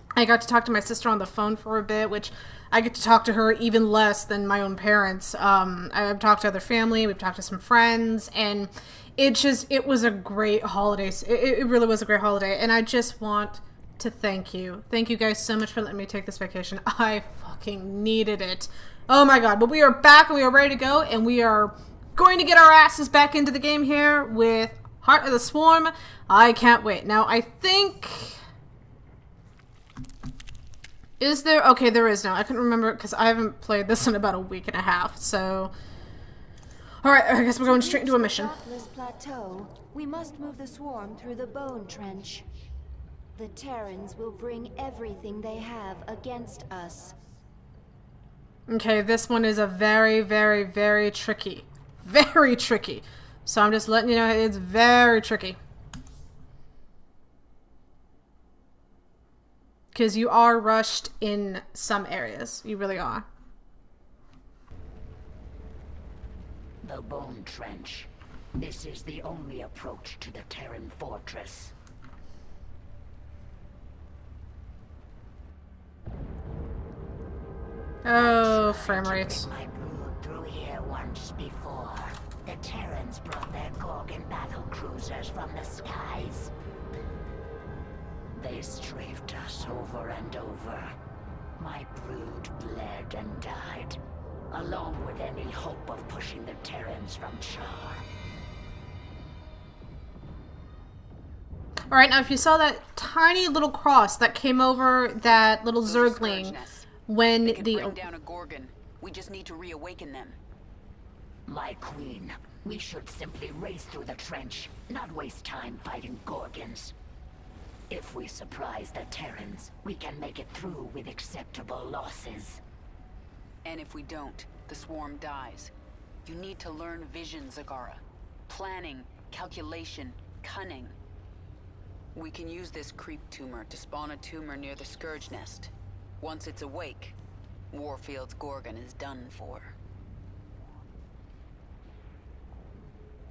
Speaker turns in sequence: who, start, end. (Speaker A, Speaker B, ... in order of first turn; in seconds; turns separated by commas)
Speaker A: 0.2-28.4, Speaker A: 31.2-35.7, Speaker A: 37.0-38.5, Speaker B: 37.6-42.5, Speaker B: 43.4-47.1, Speaker A: 48.7-55.6, Speaker A: 59.9-63.3, Speaker C: 66.8-71.7, Speaker A: 78.0-79.5, Speaker C: 78.1-86.5, Speaker C: 88.3-90.9, Speaker C: 91.6-94.0, Speaker C: 94.5-98.0, Speaker A: 101.9-108.0, Speaker D: 105.3-110.4, Speaker C: 111.5-117.0, Speaker C: 117.9-122.6, Speaker D: 123.6-125.7, Speaker D: 126.2-130.9, Speaker D: 132.1-137.2, Speaker D: 137.7-139.7